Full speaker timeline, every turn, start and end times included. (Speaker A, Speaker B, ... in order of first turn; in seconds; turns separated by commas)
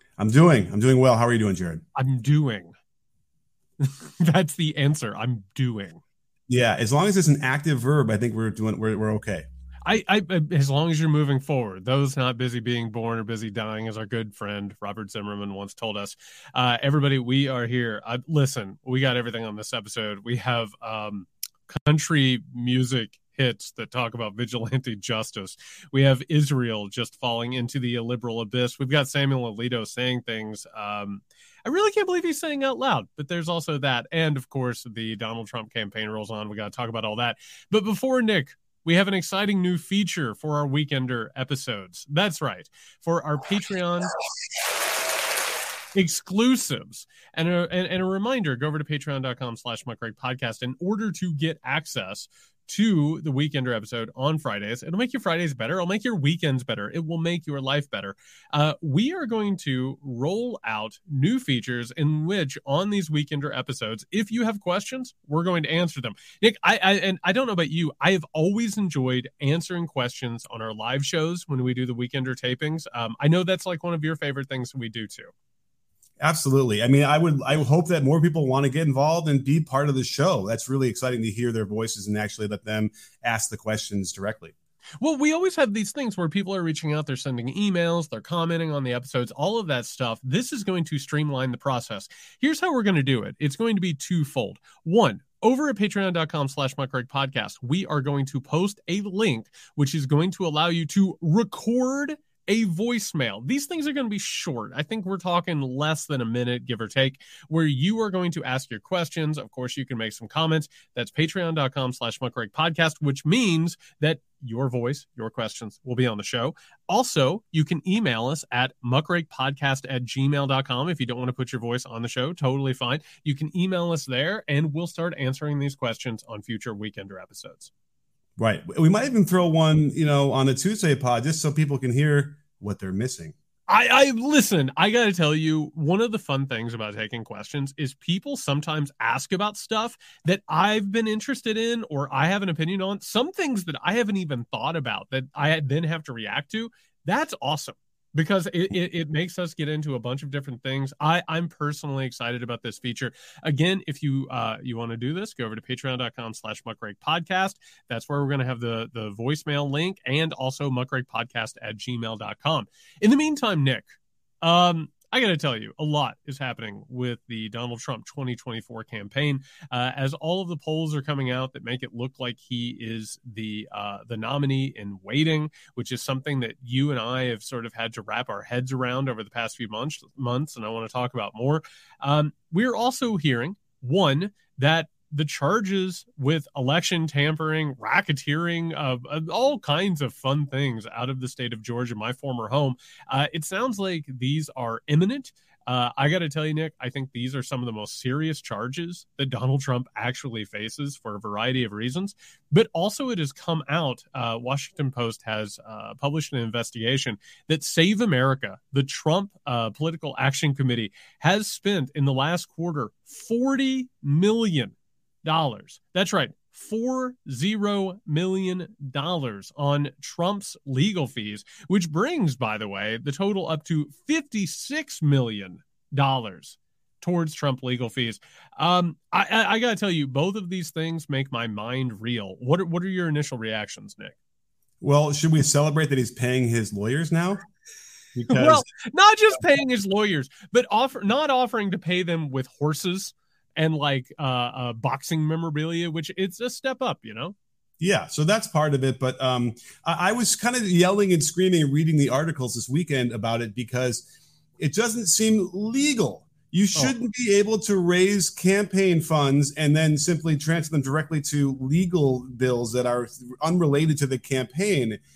Speaker A: 0.2-1.8, Speaker B: 1.9-2.7, Speaker B: 3.8-6.0, Speaker A: 6.5-9.4, Speaker B: 9.8-44.1, Speaker B: 45.9-75.3, Speaker A: 76.2-84.5, Speaker B: 85.0-127.7, Speaker A: 128.4-133.3, Speaker B: 133.7-234.2, Speaker A: 234.8-237.4, Speaker A: 238.1-238.6, Speaker B: 238.3-247.3, Speaker A: 247.8-254.1, Speaker A: 254.6-265.0